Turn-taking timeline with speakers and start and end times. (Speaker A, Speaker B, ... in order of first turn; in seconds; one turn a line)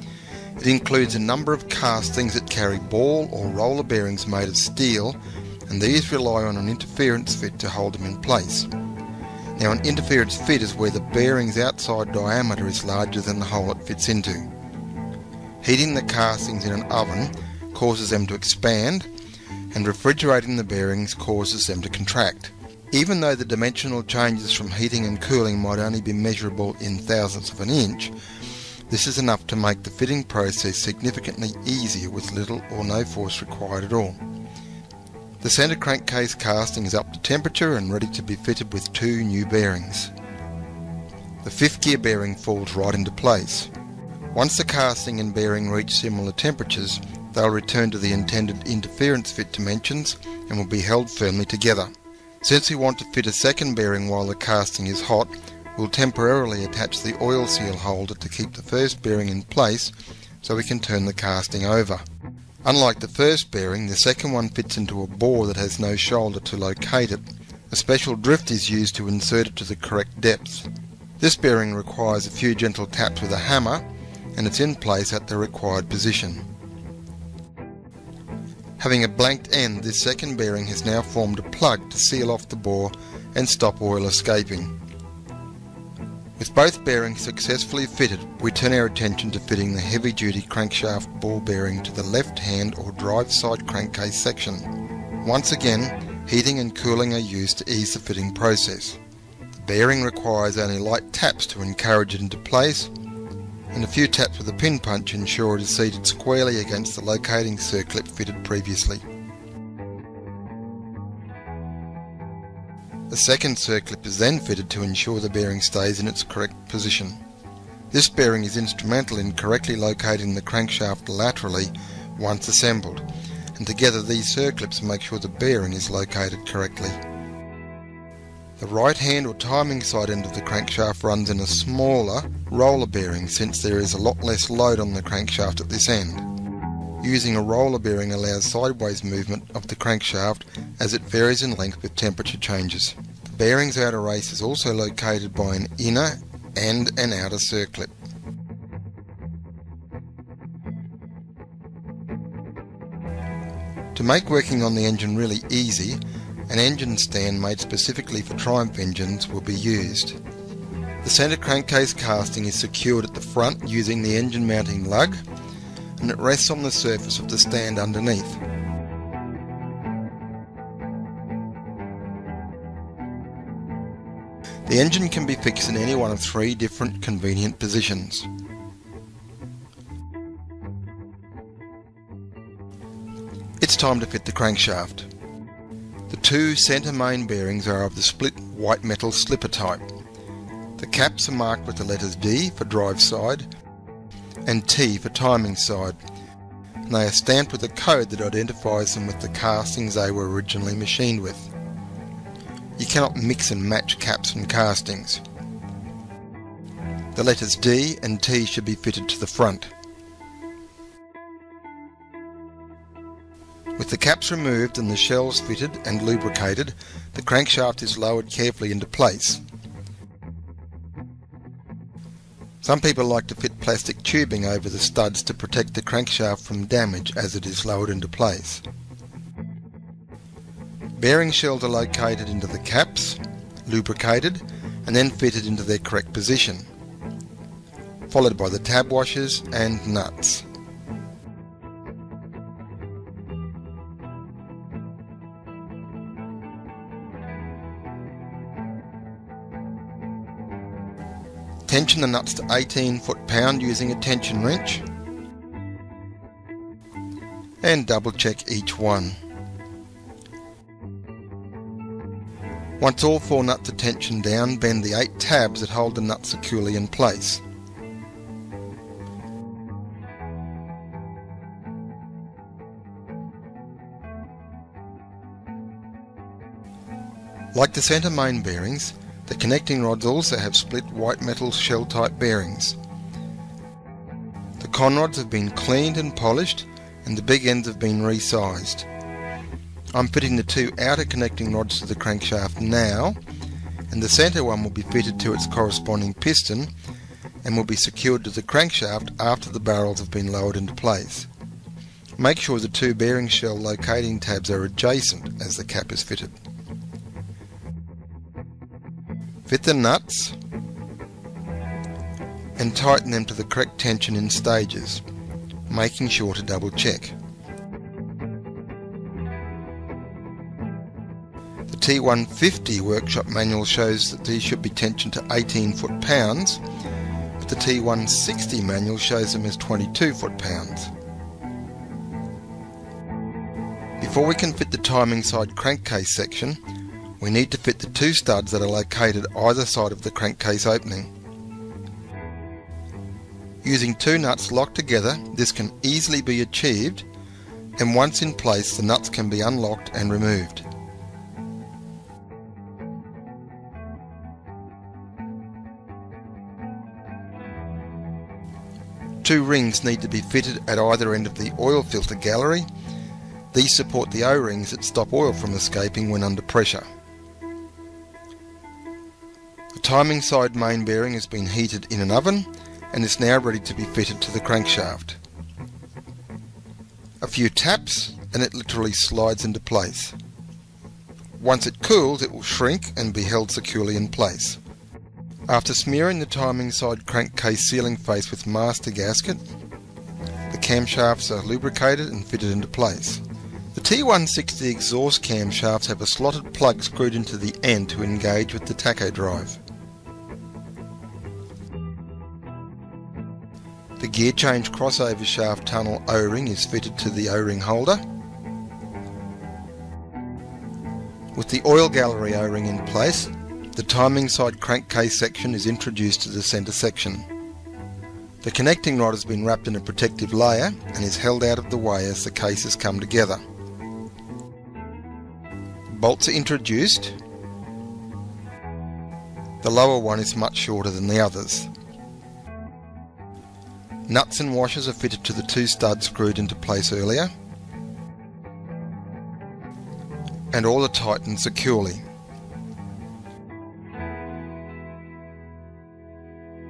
Speaker A: 0.6-8.7
Speaker A: 9.5-14.5
Speaker A: 15.6-19.1
Speaker A: 19.7-28.1
Speaker A: 28.9-34.2
Speaker A: 35.4-40.1
Speaker A: 41.4-43.7
Speaker A: 44.3-51.9
Speaker A: 52.4-62.0
Speaker A: 62.6-70.7
Speaker A: 71.2-76.5
Speaker A: 78.8-84.7
Speaker A: 86.4-94.7
Speaker A: 95.2-99.0
Speaker A: 99.6-102.9
Speaker A: 103.7-109.0
Speaker A: 113.1-117.2
Speaker A: 117.9-127.0
Speaker A: 128.6-136.2
Speaker A: 137.0-147.9
Speaker A: 153.9-160.2
Speaker A: 161.0-165.2
Speaker A: 166.0-168.4
Speaker A: 174.7-178.3
Speaker A: 183.6-185.1
Speaker A: 186.1-189.8
Speaker A: 190.8-193.5
Speaker A: 194.4-196.0
Speaker A: 196.8-201.5
Speaker A: 202.8-205.2
Speaker A: 207.1-209.7
Speaker A: 213.8-219.4
Speaker A: 222.6-228.6
Speaker A: 231.0-236.7
Speaker A: 238.1-240.4
Speaker A: 251.7-254.8
Speaker A: 257.6-259.2
Speaker A: 262.8-267.4
Speaker A: 277.5-282.8
Speaker A: 284.6-288.9
Speaker A: 289.9-293.2
Speaker A: 293.9-296.7
Speaker A: 297.4-301.3
Speaker A: 302.2-306.3
Speaker A: 309.5-310.4
Speaker A: 312.6-315.0
Speaker A: 315.7-317.1
Speaker A: 321.7-326.6
Speaker A: 327.4-330.9
Speaker A: 334.0-336.6
Speaker A: 337.2-341.1
Speaker A: 343.6-347.1
Speaker A: 347.8-350.6
Speaker A: 359.2-362.7
Speaker A: 363.5-366.9
Speaker A: 369.7-375.2
Speaker A: 377.2-380.1
Speaker A: 381.4-384.6
Speaker A: 385.5-389.4
Speaker A: 390.5-393.2
Speaker A: 393.7-399.6
Speaker A: 404.0-408.0
Speaker A: 411.3-417.3
Speaker A: 418.4-423.4
Speaker A: 425.9-427.2
Speaker A: 429.6-431.7
Speaker A: 434.1-437.3
Speaker A: 440.5-442.0